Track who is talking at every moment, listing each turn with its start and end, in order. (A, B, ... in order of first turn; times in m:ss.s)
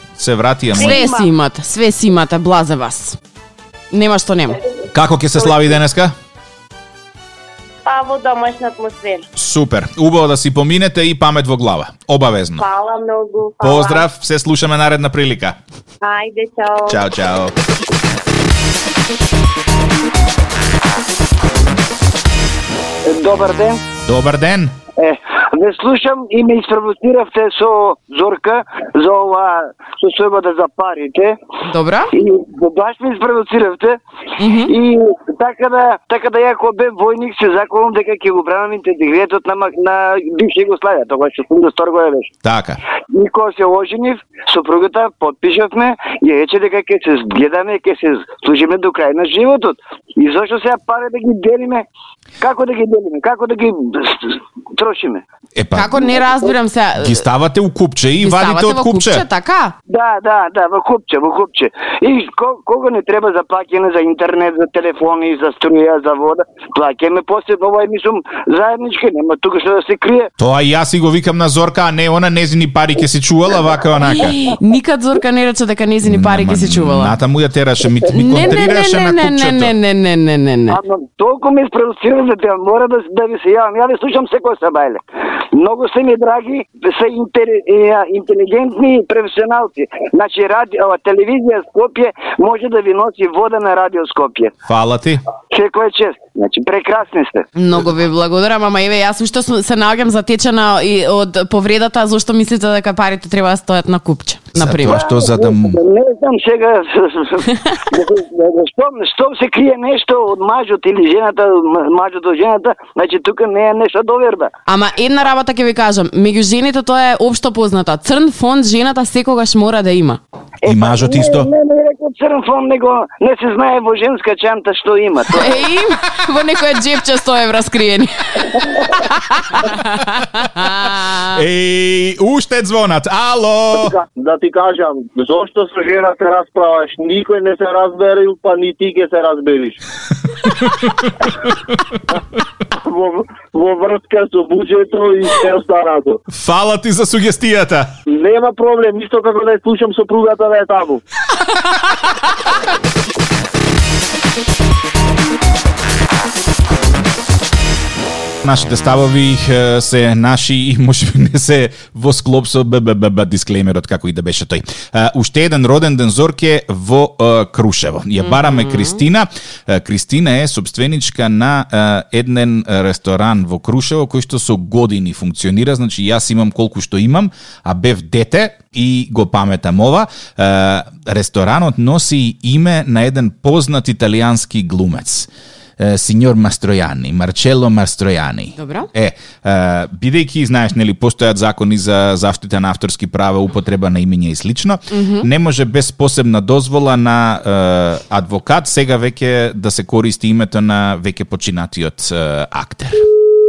0:00.2-0:01.1 A
0:00.7-0:01.3 B
0:00.8-0:03.2 C
0:03.9-0:04.6 C
0:04.9-0:06.2 A
0:07.8-0:09.3 B
0:09.4-0:12.6 A
0:12.6-0:14.1 B
0:13.6-0:15.6 A
0:16.0-0:17.0 B
0:16.9-0:17.5 A
0:23.1-0:23.8 D
0:24.0-0:24.8 A
0:25.0-0:31.4 D
0:31.6-0:32.1 C
0:32.1-0:34.0 D
0:34.4-0:34.7 C
0:34.6-0:42.3 D
0:42.4-0:42.8 A
0:43.1-0:51.8 D
0:52.4-0:55.2 D
0:55.6-0:56.2 A
0:55.7-0:57.2 C
0:57.0-0:59.2 A
0:58.2-0:59.8 C
0:59.9-1:10.3 D
1:10.4-1:14.4 A
1:14.1-1:17.2 C
1:16.0-1:19.7 A
1:18.1-1:20.8 C
1:20.7-1:34.6 D
1:34.6-1:35.2 A
1:35.5-1:37.5 D
1:37.6-1:45.0 C
1:44.5-1:45.8 A
1:44.8-1:54.5 D
1:54.7-2:00.2 C
2:00.6-2:01.5 A
2:00.6-2:05.6 D
2:05.3-2:11.4 C
2:11.3-2:14.0 A
2:13.8-2:19.8 E
2:20.4-2:21.5 A
2:22.7-2:26.2 E
2:26.3-2:27.9 A
2:28.1-2:31.0 E
2:38.4-3:23.1 A
2:48.2-2:49.0 C
3:08.6-3:08.9 C
3:14.9-3:15.3 C